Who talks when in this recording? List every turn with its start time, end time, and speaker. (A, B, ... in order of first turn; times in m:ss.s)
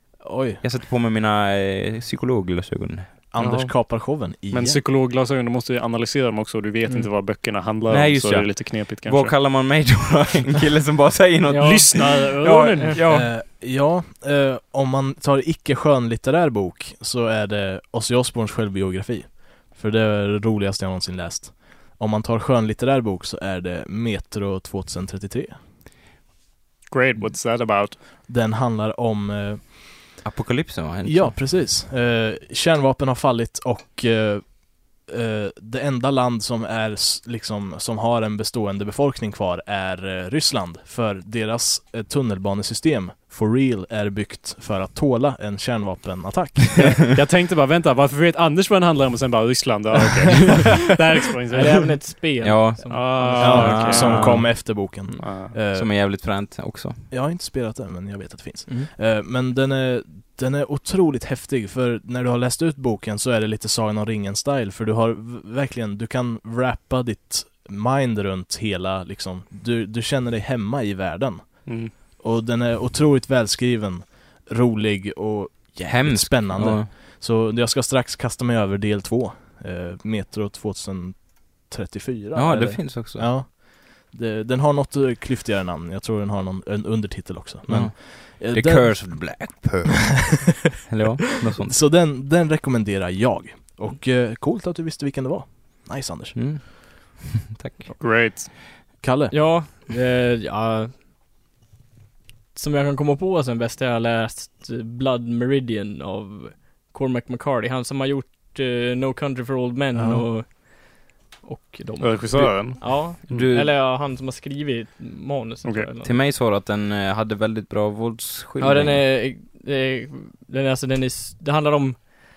0:00.2-0:00.6 A
0:00.6-0:03.1 B
0:03.3-0:04.8 A
0:03.4-0:04.0 C
0:04.5-0:09.4 C
0:07.9-0:13.3 B
0:11.5-0:12.1 D
0:11.6-0:13.0 C
0:13.1-0:25.6 A
0:26.9-0:28.0 C
0:28.2-0:30.2 A
0:30.2-0:31.4 B
0:31.0-0:47.0 A
0:47.0-0:52.0 C
0:51.5-0:54.4 D
0:52.4-0:54.5 B
0:52.9-0:54.5 C
0:53.4-0:55.9 A
0:55.2-0:55.6 C
0:55.7-0:57.0 B
0:57.1-1:29.6 A
1:11.7-1:11.9 C
1:15.9-1:16.9 B
1:22.4-1:23.3 B
1:27.7-1:31.8 B
1:31.6-1:36.6 A
1:36.4-1:37.9 B
1:38.0-1:38.5 C
1:39.0-1:39.5 A
1:39.3-1:40.9 D
1:42.6-1:56.1 D
1:50.0-1:50.3 A
1:52.0-1:53.5 C
1:53.3-1:53.8 B
1:56.0-1:59.1 B
1:58.6-2:02.1 D